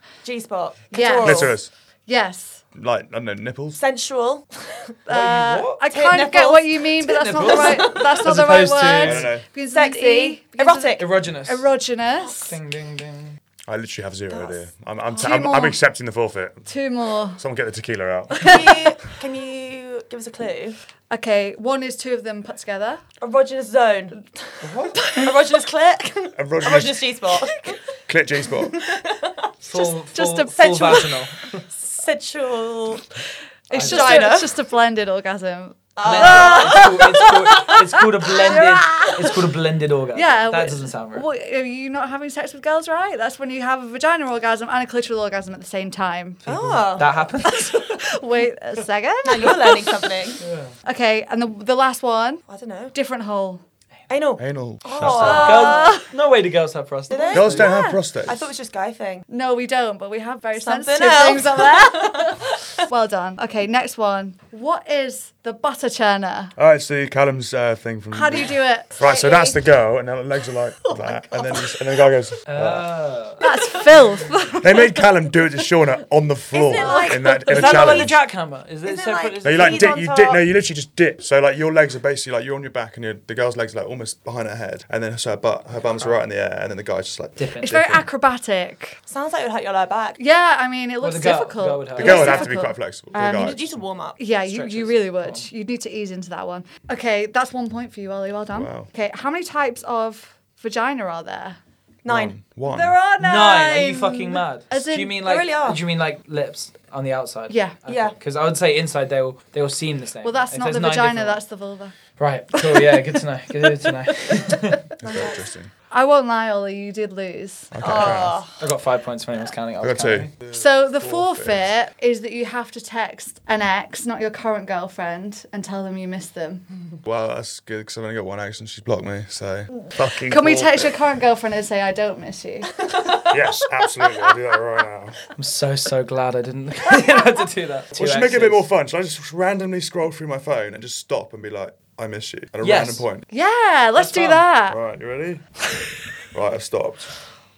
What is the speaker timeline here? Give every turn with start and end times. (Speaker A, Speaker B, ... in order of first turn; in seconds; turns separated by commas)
Speaker A: 0.2-1.6, Speaker B: 0.9-2.6, Speaker C: 1.2-1.7, Speaker C: 2.7-3.8, Speaker A: 3.7-4.9, Speaker B: 5.1-12.6, Speaker D: 5.1-5.8, Speaker A: 5.9-8.2, Speaker D: 7.0-9.3, Speaker C: 9.0-9.4, Speaker A: 9.7-11.1, Speaker D: 11.0-11.6, Speaker D: 12.3-13.4, Speaker C: 13.7-16.6, Speaker A: 14.3-14.6, Speaker B: 15.2-15.8, Speaker B: 16.7-17.4, Speaker C: 17.4-18.6, Speaker A: 18.4-20.8, Speaker B: 18.5-18.9, Speaker B: 21.1-23.0, Speaker A: 23.2-24.5, Speaker D: 24.6-25.1, Speaker B: 25.0-25.3, Speaker A: 25.1-27.7, Speaker C: 26.4-27.1, Speaker B: 27.5-27.8, Speaker C: 28.1-28.8, Speaker A: 28.7-29.4, Speaker D: 29.6-31.6, Speaker B: 29.7-31.2, Speaker A: 31.7-33.1, Speaker B: 33.7-39.3, Speaker D: 33.7-34.4, Speaker A: 33.8-34.5, Speaker A: 36.0-37.7, Speaker D: 36.0-41.2, Speaker B: 40.1-46.4, Speaker A: 46.5-47.1, Speaker D: 46.5-48.0, Speaker B: 47.4-50.0, Speaker A: 49.2-50.4, Speaker D: 50.4-50.7, Speaker B: 50.9-53.6, Speaker A: 52.5-52.9, Speaker A: 54.1-56.0, Speaker C: 54.4-55.6, Speaker D: 55.0-57.7, Speaker B: 55.2-56.1, Speaker A: 57.1-59.3, Speaker C: 57.3-58.4, Speaker B: 57.5-58.0, Speaker B: 59.3-66.5, Speaker A: 60.5-62.5, Speaker C: 66.6-72.9, Speaker B: 68.1-69.5, Speaker A: 69.0-69.6, Speaker A: 70.8-71.8, Speaker D: 72.5-73.4, Speaker B: 73.4-75.0, Speaker C: 74.6-78.2, Speaker A: 76.5-78.1, Speaker B: 76.7-77.3, Speaker D: 77.5-79.9, Speaker A: 78.8-80.4, Speaker C: 79.4-88.0, Speaker D: 87.4-87.8, Speaker B: 87.6-89.0, Speaker A: 89.1-90.2, Speaker B: 90.2-93.6, Speaker D: 91.0-92.5, Speaker C: 92.0-93.8, Speaker A: 92.1-92.4, Speaker A: 93.2-94.2, Speaker B: 94.2-101.6, Speaker D: 94.4-95.5, Speaker C: 98.5-98.9, Speaker A: 102.0-102.4, Speaker C: 102.1-103.0, Speaker B: 102.7-105.2, Speaker D: 103.2-111.4, Speaker A: 105.2-105.8, Speaker B: 107.5-107.8, Speaker A: 107.9-108.2, Speaker B: 110.2-111.9, Speaker D: 112.2-114.8, Speaker B: 112.6-113.0, Speaker B: 114.2-114.7, Speaker C: 115.0-115.7, Speaker A: 115.0-115.4, Speaker B: 115.9-118.1, Speaker C: 117.7-118.4, Speaker A: 117.8-118.5, Speaker D: 118.0-120.3, Speaker C: 119.8-121.7, Speaker B: 120.5-126.6, Speaker C: 127.0-131.0, Speaker B: 129.7-133.2, Speaker C: 133.3-135.2, Speaker D: 135.4-138.6, Speaker C: 137.9-143.2, Speaker D: 142.6-143.1, Speaker B: 143.3-144.8, Speaker D: 144.0-144.4, Speaker C: 144.7-145.5, Speaker C: 146.3-147.1